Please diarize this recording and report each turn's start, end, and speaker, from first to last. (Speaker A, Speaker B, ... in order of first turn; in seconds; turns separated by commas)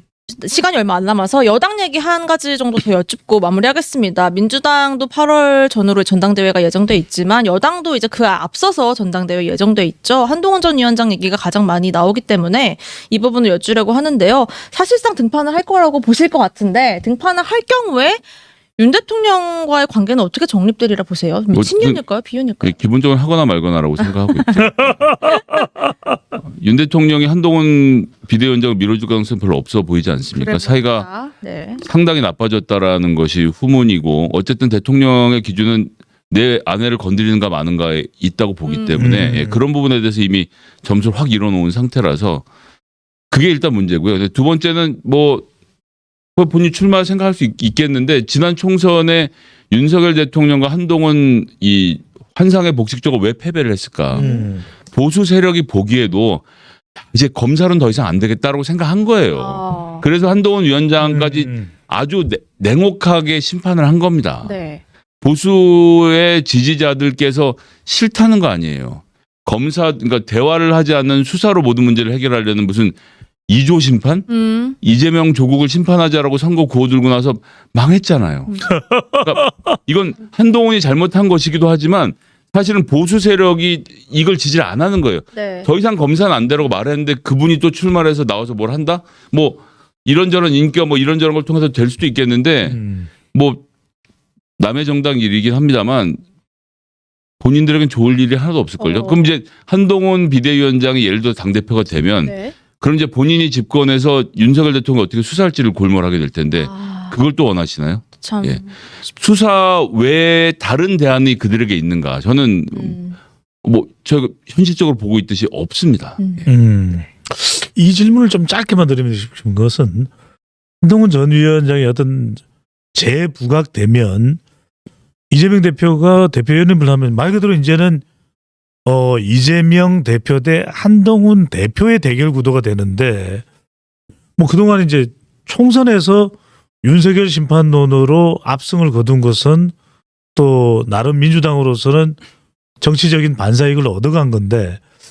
Speaker A: 0.3-18.2, Speaker A: 18.8-22.8, Speaker B: 21.5-22.0, Speaker B: 22.6-25.1, Speaker A: 24.0-24.6, Speaker C: 24.6-25.9, Speaker B: 26.5-31.1, Speaker A: 30.4-31.8, Speaker B: 31.8-42.5, Speaker A: 38.6-39.0, Speaker C: 39.0-39.6, Speaker B: 43.3-45.4, Speaker B: 46.4-54.3, Speaker A: 54.1-54.5, Speaker C: 54.1-54.6, Speaker B: 54.9-56.4, Speaker B: 57.1-64.5, Speaker A: 59.3-60.0, Speaker C: 61.0-61.7, Speaker A: 64.4-64.8, Speaker B: 65.2-73.0, Speaker B: 73.5-74.3, Speaker A: 74.3-74.8, Speaker B: 74.8-92.8, Speaker A: 78.5-78.7, Speaker C: 78.7-79.7, Speaker A: 85.3-85.7, Speaker C: 92.6-93.1, Speaker B: 93.3-93.6, Speaker B: 94.6-96.2, Speaker B: 97.4-113.0, Speaker A: 98.8-99.3, Speaker A: 102.2-102.5, Speaker A: 106.5-107.2, Speaker A: 108.2-108.8, Speaker A: 112.7-113.2, Speaker B: 113.6-116.5, Speaker A: 116.2-116.5, Speaker C: 116.5-120.1, Speaker C: 120.8-122.4, Speaker C: 122.9-124.4, Speaker C: 125.3-128.0, Speaker C: 128.8-133.4, Speaker C: 134.4-139.7, Speaker C: 140.3-142.2, Speaker C: 142.8-144.8